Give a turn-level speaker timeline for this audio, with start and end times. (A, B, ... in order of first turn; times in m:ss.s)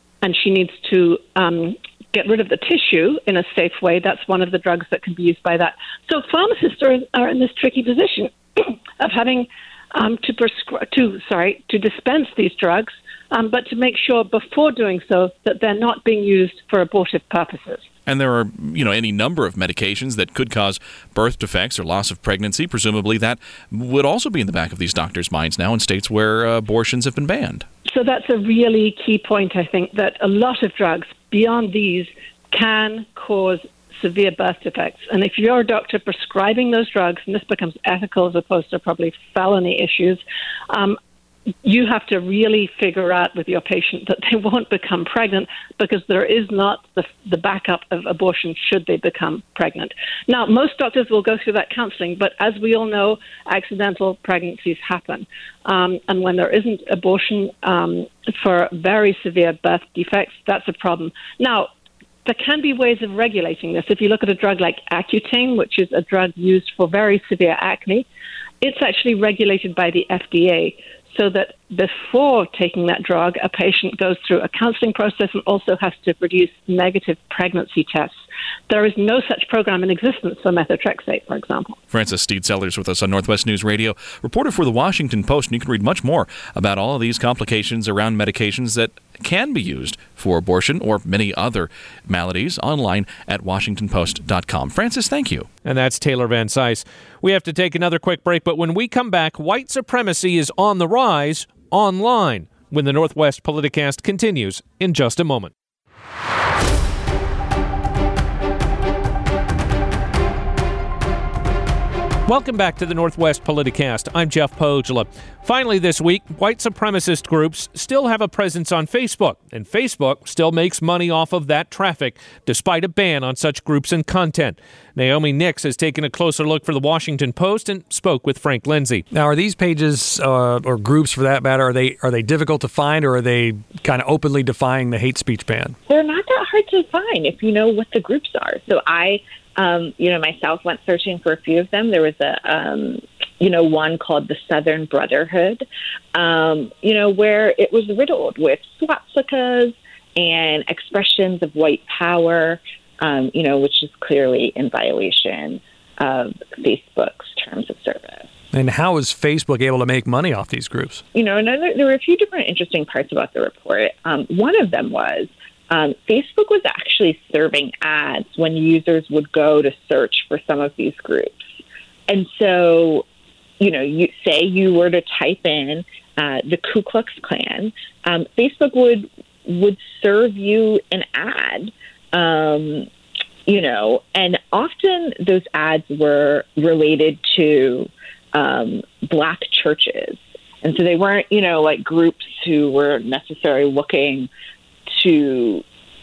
0:00.2-0:17.9 A
0:18.0-0:27.6 B
0:27.9-0:41.0 A
0:41.6-1:01.7 A
1:02.2-1:08.0 A
1:08.6-1:18.1 A
1:18.7-1:21.8 A
1:21.9-1:35.5 B
1:35.6-1:45.5 C
1:52.2-2:09.0 C
2:09.1-2:15.8 D
2:15.9-2:38.3 E
2:38.5-2:41.0 D
2:41.1-2:51.5 E
2:52.1-2:53.0 E
2:53.6-3:02.9 E
3:03.4-3:14.3 E
3:14.9-3:15.6 E